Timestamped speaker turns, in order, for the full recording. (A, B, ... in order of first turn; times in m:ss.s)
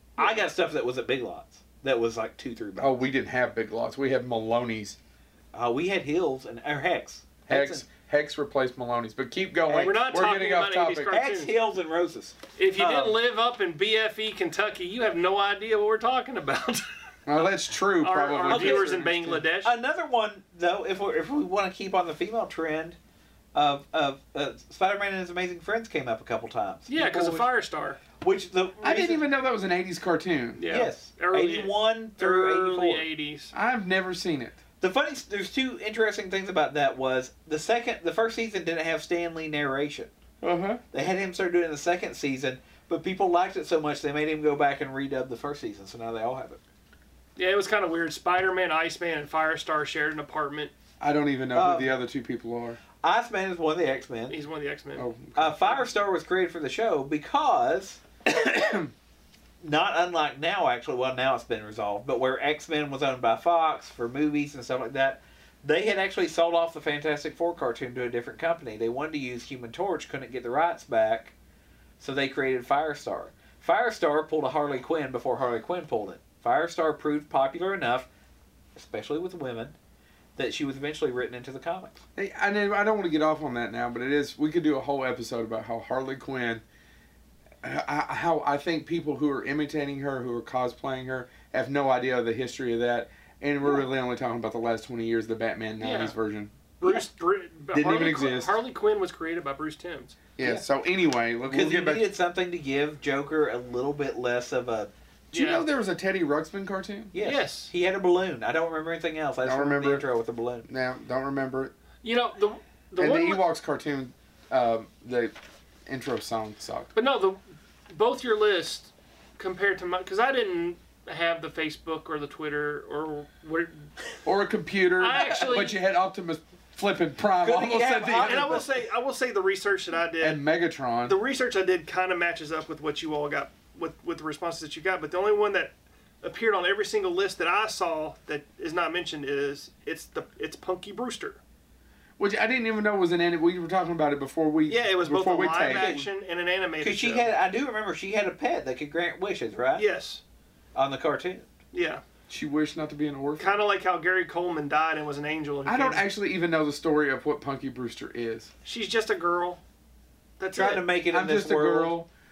0:00.2-0:03.0 A
0:02.8-0:05.0 B
0:05.5-0:07.8 A
0:07.5-0:11.1 B
0:09.7-0:11.5 C
0:11.1-0:13.2 A
0:12.6-0:16.8 C
0:17.2-0:19.4 B
0:18.0-0:19.7 C
0:18.5-0:19.1 A
0:19.6-0:23.0 A
0:23.5-0:27.4 A
0:26.9-0:28.0 C
0:28.2-0:29.2 A
0:28.8-0:30.6 B
0:30.6-0:33.5 C
0:30.7-0:33.0 A
0:33.5-0:34.6 B
0:34.8-0:40.1 A
0:40.4-0:40.8 B
0:40.9-0:46.6 A
0:47.4-0:50.7 C
0:51.0-0:52.8 B
0:51.5-0:52.0 A
0:53.0-0:54.4 A
0:54.3-0:55.1 C
0:55.0-0:55.8 B
0:55.4-0:58.0 A
0:58.2-0:58.9 B
0:59.6-1:11.3 A
1:12.0-1:18.1 A
1:18.8-1:19.8 A
1:20.4-1:22.0 A
1:22.2-1:26.6 B
1:27.6-1:37.0 B
1:35.8-1:36.1 C
1:36.8-1:40.2 C
1:37.7-1:38.6 B
1:40.4-1:42.1 B
1:41.5-1:44.9 A
1:45.3-1:45.7 C
1:45.3-1:47.1 B
1:47.1-1:50.7 A
1:47.2-1:47.7 C
1:49.4-1:50.0 B
1:50.7-1:51.7 B
1:52.0-1:53.4 C
1:53.0-1:55.3 B
1:55.8-1:56.9 B
1:56.9-2:03.9 C
2:04.2-2:08.6 B
2:05.0-2:05.8 C
2:07.4-2:08.7 A
2:08.2-2:10.4 C
2:10.2-2:11.2 B
2:11.0-2:21.4 C
2:22.2-2:26.0 B
2:24.7-2:27.3 C
2:25.6-2:26.0 A
2:26.8-2:29.8 A
2:29.8-2:30.2 C
2:30.7-2:31.5 A
2:31.7-2:32.0 C
2:32.3-2:33.6 B
2:33.4-2:36.0 C
2:35.6-2:38.5 B
2:38.6-2:39.6 C
2:40.4-2:40.8 C
2:40.5-2:41.9 A
2:41.0-2:42.1 B